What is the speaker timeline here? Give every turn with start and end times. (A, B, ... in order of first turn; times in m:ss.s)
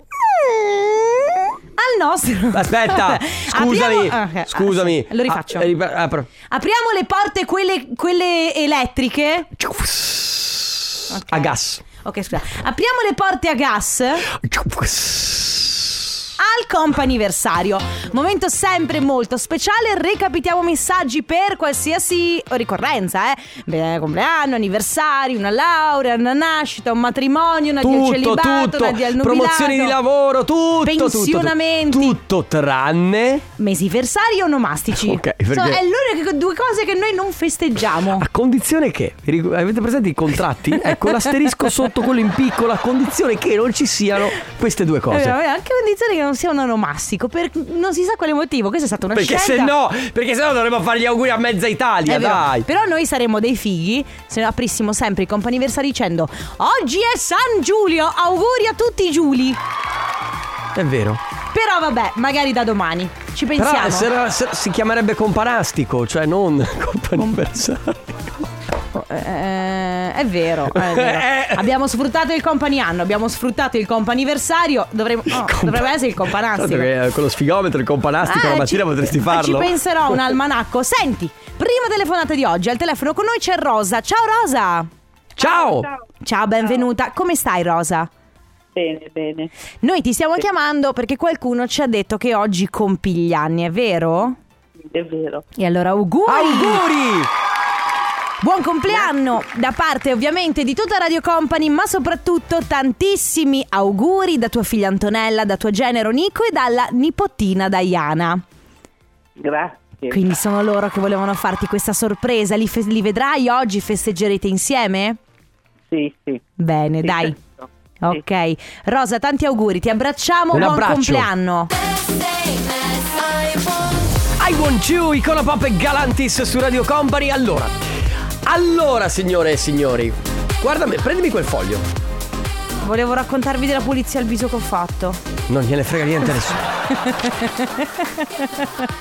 0:00.2-0:05.7 A
0:02.5-0:06.3 B
0:06.5-0:09.5 A
0:09.6-0:11.8 B
0:11.1-0:14.3 A
0:14.3-0:16.1 B
0:16.4-0:30.0 A
0:27.8-0:33.4 B
0:30.8-0:32.2 A
0:33.6-0:38.3 A
0:34.9-0:35.8 B
0:38.1-0:45.4 B
0:45.1-0:49.7 A
0:49.1-0:52.7 B
0:52.0-0:59.6 A
1:00.7-1:01.2 B
1:01.5-1:04.1 A
1:03.6-1:08.1 B
1:08.9-1:16.9 A
1:10.6-1:11.7 B
1:15.3-1:19.8 B
1:18.2-1:24.9 A
1:25.4-1:25.9 B
1:25.4-1:28.1 A
1:28.7-1:29.5 C
1:29.8-1:34.4 A
1:34.8-1:35.4 C
1:35.6-1:36.8 A
1:36.2-1:37.3 B
1:38.4-1:48.4 A
1:49.4-1:50.2 C
1:50.1-1:55.2 A
1:55.9-1:56.4 C
1:56.6-1:57.4 A
1:57.0-1:58.2 C
1:58.0-2:01.7 A
2:00.5-2:01.3 B
2:04.4-2:07.8 B
2:08.4-2:11.9 B
2:12.8-2:15.2 A
2:15.5-2:16.6 B
2:17.0-2:18.5 A